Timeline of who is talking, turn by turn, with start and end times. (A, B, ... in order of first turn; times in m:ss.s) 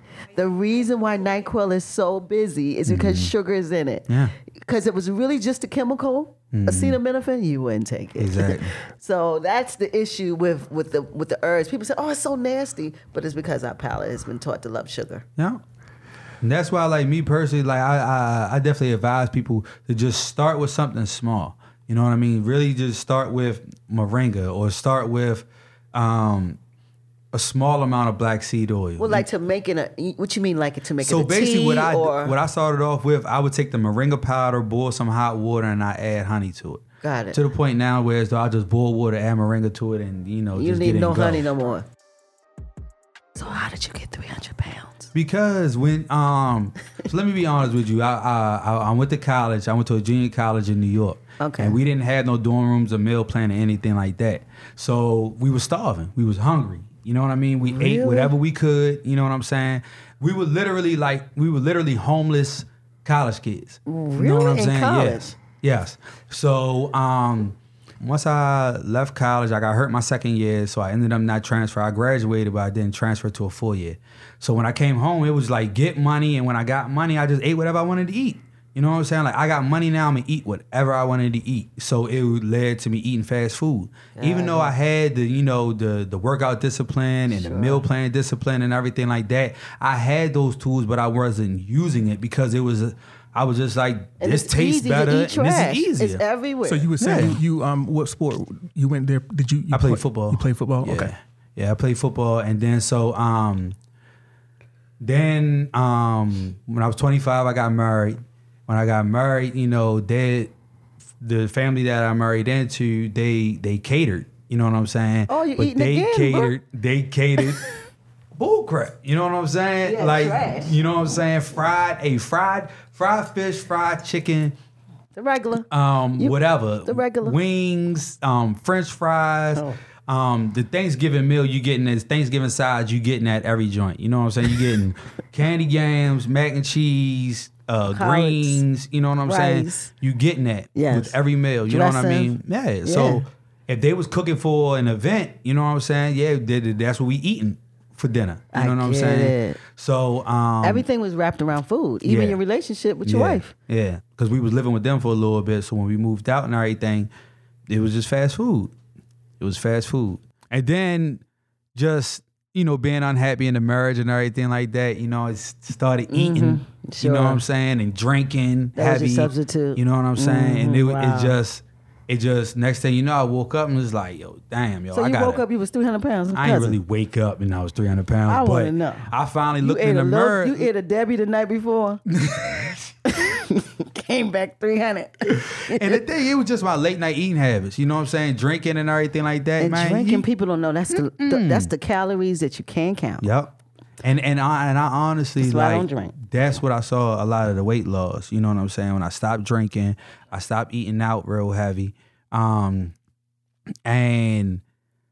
0:00.3-0:15.2 A
0:02.8-0:03.3 B
0:06.5-0:07.0 B
0:08.2-0:08.7 B
0:16.4-0:26.6 B
0:27.3-0:29.3 B
0:29.0-0:32.4 A
0:31.0-0:41.5 B
0:37.0-0:37.4 A
0:40.6-0:41.8 A
0:43.3-0:45.1 A
0:45.1-1:36.2 B
0:51.4-0:51.8 A
0:57.7-0:58.3 A
1:03.8-1:05.3 A
1:24.1-1:24.7 A
1:27.3-1:27.8 A
1:34.2-1:37.2 A
1:36.6-1:41.1 C
1:37.0-1:37.4 B
1:39.7-1:43.8 B
1:45.0-1:50.5 B
1:51.2-1:57.6 B
1:55.3-1:56.5 A
1:58.4-2:04.5 B
1:59.8-2:00.8 A
2:05.2-2:07.4 A
2:05.7-2:30.8 B
2:17.9-2:18.6 A
2:19.2-2:19.9 A
2:20.7-2:23.2 A
2:28.5-2:29.6 A
2:30.6-2:33.5 A
2:32.0-2:32.4 B
2:33.0-2:37.1 B
2:37.7-2:38.7 B
2:39.4-2:41.2 B
2:41.7-2:55.4 B
2:46.1-2:47.4 A
2:48.8-2:51.4 A
2:54.9-2:56.8 A
2:56.3-3:00.7 B
2:58.3-2:59.1 A
2:59.6-3:02.0 A
3:02.1-3:02.9 B
3:03.0-3:06.0 A
3:05.3-3:10.2 B
3:09.6-3:13.3 A
3:10.9-3:11.7 B
3:13.2-3:22.9 B
3:15.4-3:16.1 A
3:23.8-3:24.6 B